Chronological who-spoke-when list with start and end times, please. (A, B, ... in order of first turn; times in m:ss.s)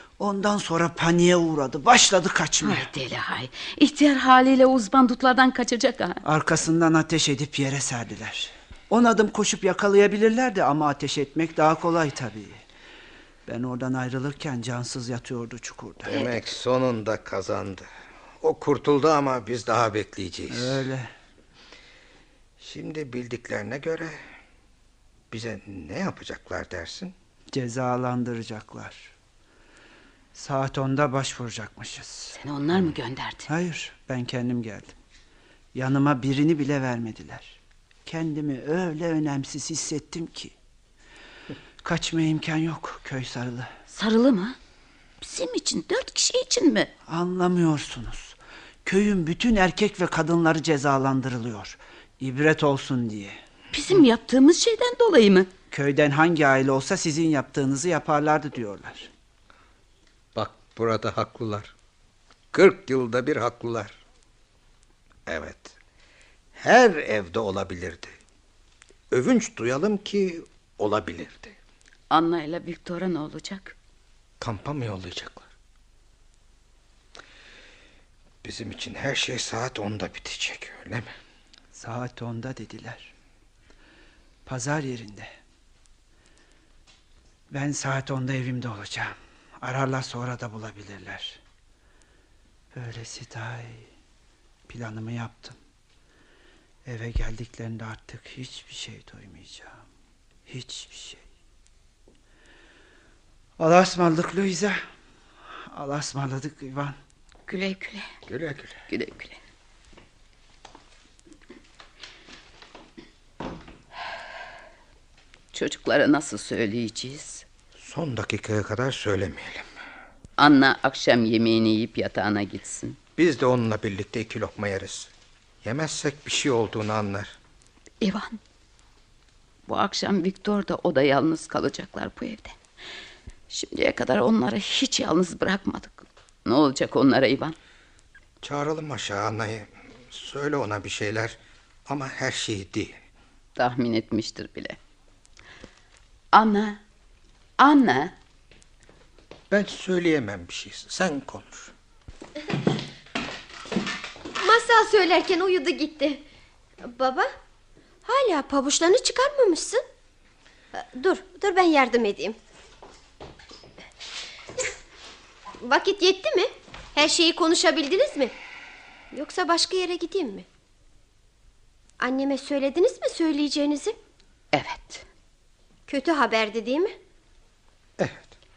0:00.2-0:02.9 A
0:02.6-0:06.2 B
0:06.2-0:12.6 A
0:13.5-0:16.2 A
0:16.1-0:17.9 C
0:18.4-0:20.8 C
0:20.5-0:21.1 A
0:22.6-0:24.2 C
0:25.3-0:27.1 C
0:27.5-0:29.1 A
0:30.3-0:32.4 A
0:32.3-0:33.5 B
0:33.5-0:35.0 A
0:35.7-0:40.5 A
0:41.8-0:43.7 A
0:43.9-0:44.6 B
0:45.2-0:46.9 B
0:47.1-0:53.4 A
0:53.7-0:55.5 B
0:55.7-0:59.1 A
1:00.4-1:01.7 C
1:02.5-1:04.0 C
1:05.3-1:05.8 C
1:06.6-1:08.1 C
1:09.1-1:11.6 C
1:12.1-1:13.8 B
1:14.4-1:15.5 C
1:18.4-1:21.1 C
1:21.7-1:23.1 A
1:24.5-1:25.3 A
1:27.5-1:31.4 A
1:32.7-1:33.9 A
1:34.7-1:35.6 A
1:36.8-1:39.8 A
1:40.5-1:41.2 A
1:43.6-1:44.8 A
1:45.7-1:47.0 A
1:47.5-1:48.1 B
1:48.3-1:48.8 C
1:48.9-1:49.4 B
1:55.5-1:57.4 B
1:57.8-1:59.6 C
2:00.4-2:03.0 B
2:03.2-2:05.1 C
2:05.6-2:07.4 C
2:08.0-2:08.4 B
2:09.7-2:12.5 B
2:13.5-2:17.6 B
2:18.4-2:23.0 C
2:23.6-2:24.8 B
2:26.3-2:26.8 B
2:27.6-2:28.2 B
2:29.5-2:31.7 C
2:34.4-2:36.2 D
2:36.9-2:37.3 D
2:38.0-2:39.8 D
2:40.7-2:42.4 D
2:45.6-2:48.3 D
2:49.1-2:50.5 D
2:52.0-2:54.0 D
2:54.5-2:55.0 B
2:55.9-2:56.9 D
2:58.0-2:58.3 C